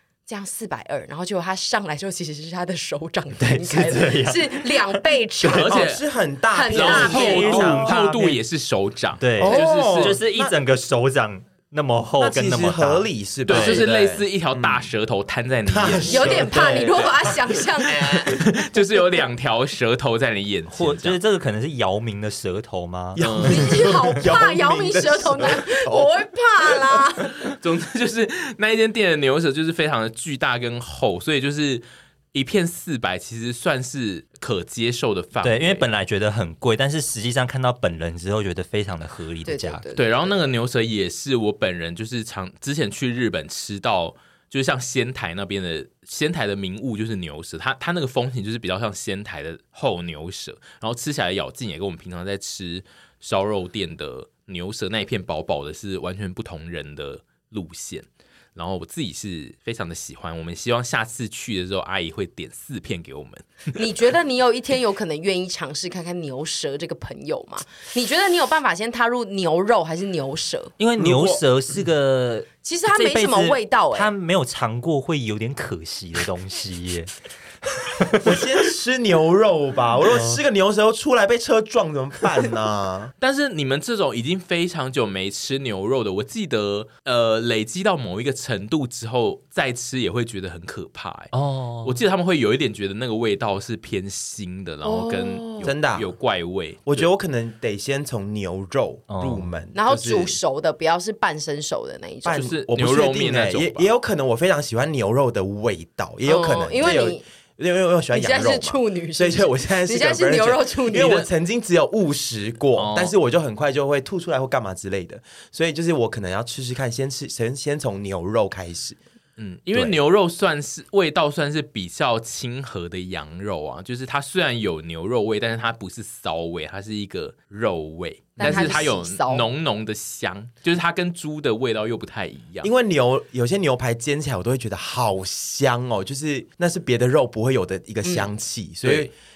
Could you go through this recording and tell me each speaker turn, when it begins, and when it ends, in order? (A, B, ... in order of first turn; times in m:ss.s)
0:00.3-0:05.9 A
0:03.4-0:05.0 B
0:05.4-0:06.0 C
0:05.5-0:08.0 D
0:06.5-0:07.9 A
0:06.7-0:10.2 C
0:06.8-0:08.4 B
0:09.2-0:13.8 B
0:09.4-0:10.6 D
0:12.2-0:14.9 D
0:13.5-0:17.1 C
0:15.7-0:16.9 D
0:16.1-0:18.2 A
0:16.5-0:16.9 B
0:17.9-0:18.4 D
0:17.9-0:21.2 C
0:20.7-0:23.2 B
0:23.2-0:27.0 D
0:23.2-0:23.7 C
0:23.4-0:27.3 A
0:27.6-0:35.8 C
0:35.4-0:39.8 B
0:39.4-0:40.3 A
0:40.0-1:03.7 C
1:03.7-1:10.7 A
1:10.8-1:17.1 B
1:11.0-1:11.4 D
1:12.6-1:14.1 A
1:17.8-1:18.4 B
1:18.2-1:23.1 D
1:20.1-1:20.4 B
1:23.2-1:37.1 C
1:31.3-1:32.0 B
1:34.8-1:35.7 A
1:35.6-1:36.1 D
1:36.8-1:40.4 D
1:39.1-1:39.5 B
1:39.7-1:42.5 A
1:42.2-1:59.0 D
1:42.3-1:43.9 C
1:46.2-1:47.2 A
1:48.1-1:51.3 A
1:52.7-1:53.1 C
1:59.4-2:12.7 C
2:08.4-2:09.5 A
2:08.4-2:08.8 D
2:12.6-2:19.1 D
2:18.0-2:18.3 A
2:18.8-2:19.1 C